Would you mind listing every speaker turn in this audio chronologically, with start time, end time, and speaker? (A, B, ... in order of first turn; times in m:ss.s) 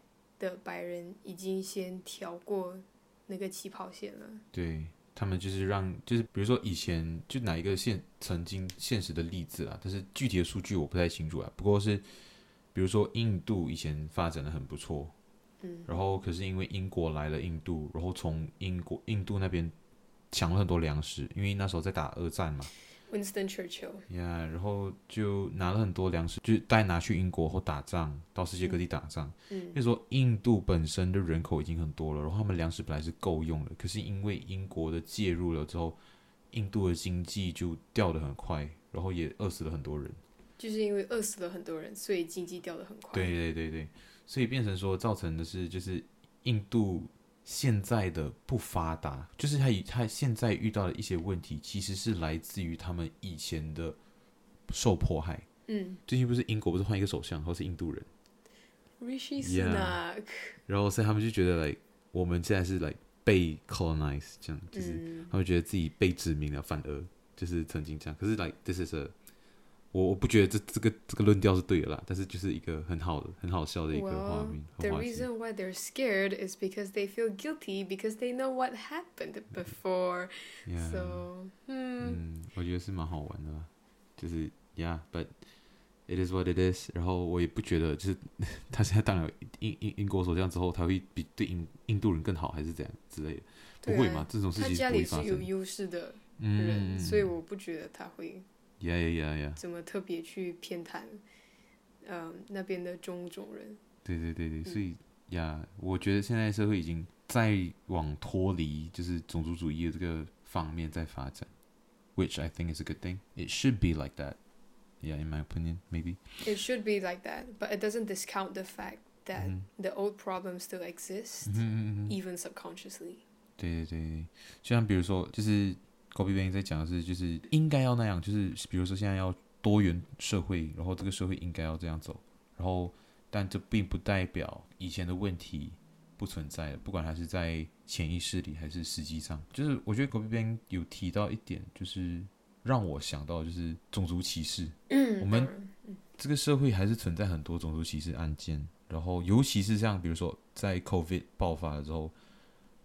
0:00.4-0:04.4 A
0:04.5-0:12.1 B
0:12.7-0:15.1 B
0:15.6-0:15.9 A
0:15.9-0:19.8 B
0:20.3-0:22.7 B
0:23.0-0:24.1 A
0:24.1-0:36.0 B
0:29.5-0:29.8 A
0:36.5-0:40.2 B
0:40.6-0:43.3 A
0:43.1-0:54.0 B
0:54.7-0:55.5 B
0:55.7-0:56.0 A
0:56.1-0:58.1 B
0:59.0-1:00.6 A
0:59.4-1:00.0 B
1:00.7-1:09.2 B
1:04.7-1:05.3 A
1:09.9-1:15.3 B
1:13.9-1:22.2 A
1:20.6-1:21.3 B
1:22.0-1:25.4 B
1:26.1-1:35.5 B
1:33.8-1:38.5 A
1:36.4-1:37.3 B
1:38.8-1:39.6 B
1:39.6-1:41.2 A
1:42.0-1:43.8 A
1:44.0-1:51.5 B
1:52.2-1:54.4 B
1:55.0-1:56.4 B
1:56.4-2:03.2 A
1:59.4-1:59.7 B
2:01.4-2:02.2 B
2:03.6-2:25.5 B
2:24.9-2:26.0 A
2:26.2-2:32.1 B